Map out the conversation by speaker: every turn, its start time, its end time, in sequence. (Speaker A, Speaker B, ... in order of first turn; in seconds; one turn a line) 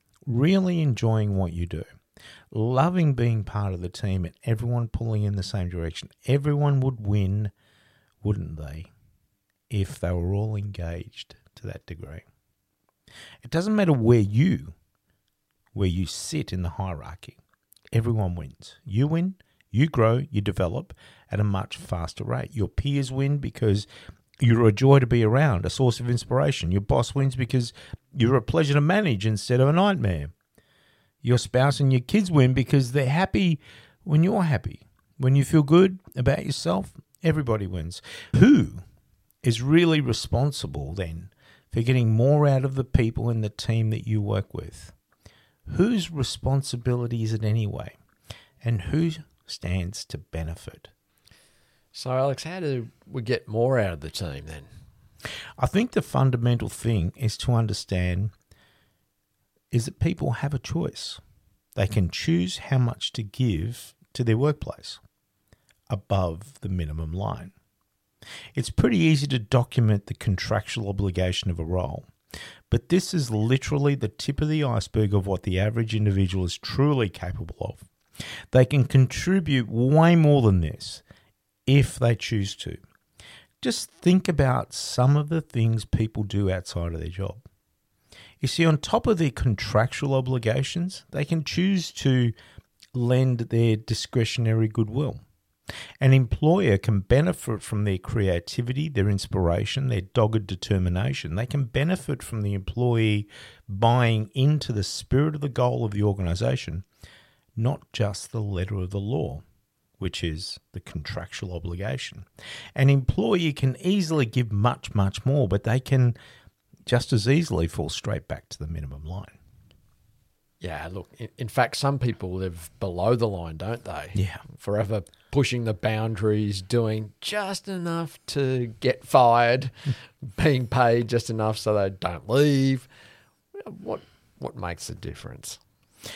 Speaker A: 0.2-1.9
Speaker A: 2.5-7.5
Speaker A: 8.2-8.9
Speaker A: 9.7-12.2
Speaker A: 13.4-14.7
Speaker A: 15.7-17.4
Speaker A: 17.9-23.9
Speaker A: 24.4-30.3
Speaker A: 31.2-38.8
Speaker A: 39.4-44.9
Speaker A: 45.7-48.0
Speaker A: 48.6-50.9
Speaker B: 51.9-54.7
Speaker A: 55.6-58.3
Speaker A: 59.7-61.2
Speaker A: 61.7-65.0
Speaker A: 65.9-67.5
Speaker A: 68.5-72.1
Speaker A: 72.7-77.8
Speaker A: 78.5-81.0
Speaker A: 81.7-82.8
Speaker A: 83.6-87.4
Speaker A: 88.4-92.3
Speaker A: 92.9-95.2
Speaker A: 96.0-106.8
Speaker A: 107.5-109.4
Speaker A: 110.0-116.2
Speaker A: 116.8-119.4
Speaker B: 120.6-129.7
Speaker A: 124.1-124.4
Speaker B: 130.2-132.9
Speaker B: 133.6-135.6